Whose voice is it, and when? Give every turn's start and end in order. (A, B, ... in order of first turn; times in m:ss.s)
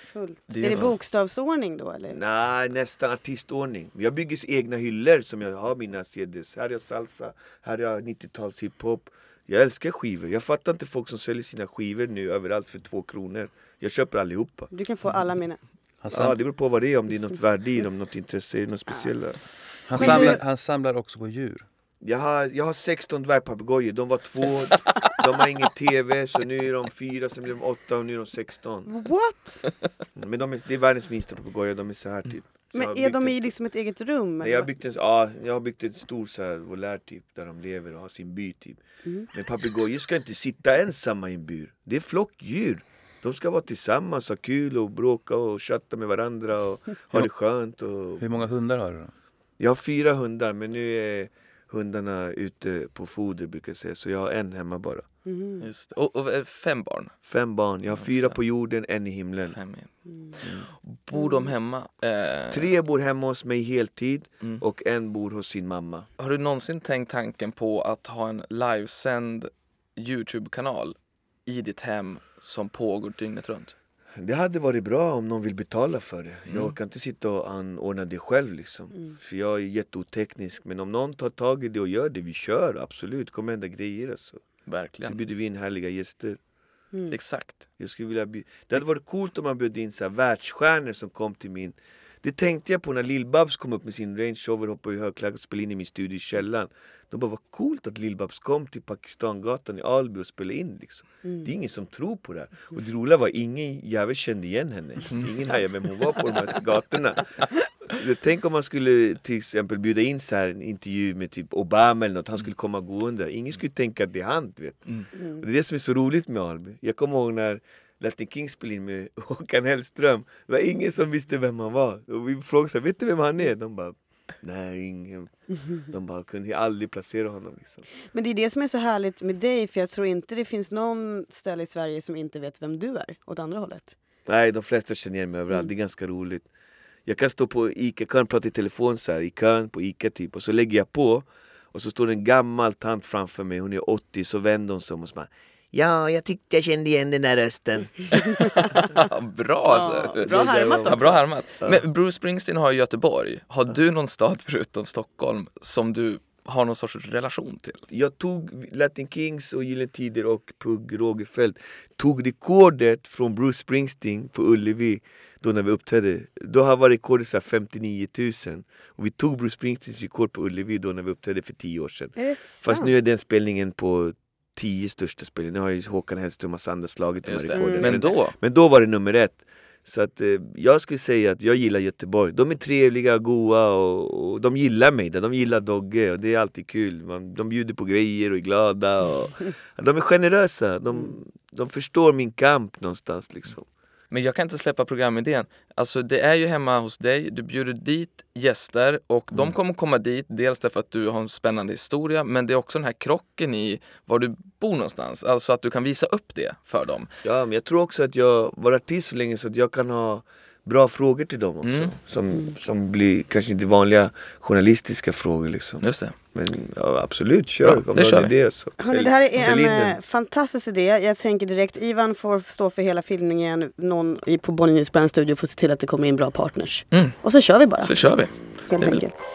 0:00.1-0:02.2 A
0:00.5-0:00.9 B
0:02.1-0:14.7 C
0:14.7-0:15.6 A
0:16.0-0:16.3 D
0:16.1-0:19.4 C
0:19.9-0:21.6 D
0:19.9-0:20.4 C
0:20.0-0:20.4 A
0:22.0-0:28.9 C
0:28.9-0:29.7 A
0:30.1-0:33.5 C
0:32.7-0:34.7 A
0:34.4-0:48.4 C
0:48.2-0:49.1 D
0:49.6-0:55.1 C
0:55.2-0:55.6 A
0:55.6-0:57.1 B
0:57.3-0:59.6 C
0:58.0-0:58.3 B
0:59.5-0:59.9 B
1:00.4-1:02.7 B
1:02.5-1:06.1 C
1:06.2-1:13.7 B
1:14.2-1:24.4 C
1:24.7-1:25.2 B
1:25.0-1:26.4 C
1:27.1-1:27.6 B
1:27.8-2:07.8 C
1:55.2-1:55.4 A
2:08.1-2:14.0 A
2:14.2-2:16.5 C
2:17.0-2:28.5 C
2:28.3-2:37.8 B
2:29.7-2:31.2 A
2:30.2-2:31.8 C
2:37.9-3:13.7 C
2:52.2-2:52.9 A
2:57.2-2:58.3 B
2:57.6-2:58.0 A
3:14.1-3:27.1 B
3:27.2-3:40.0 C
3:31.6-3:31.9 B
3:35.8-3:36.1 B
3:37.6-3:38.3 B
3:38.8-3:47.9 A
3:46.9-3:47.2 B
3:47.8-3:49.0 B
3:48.6-3:49.2 A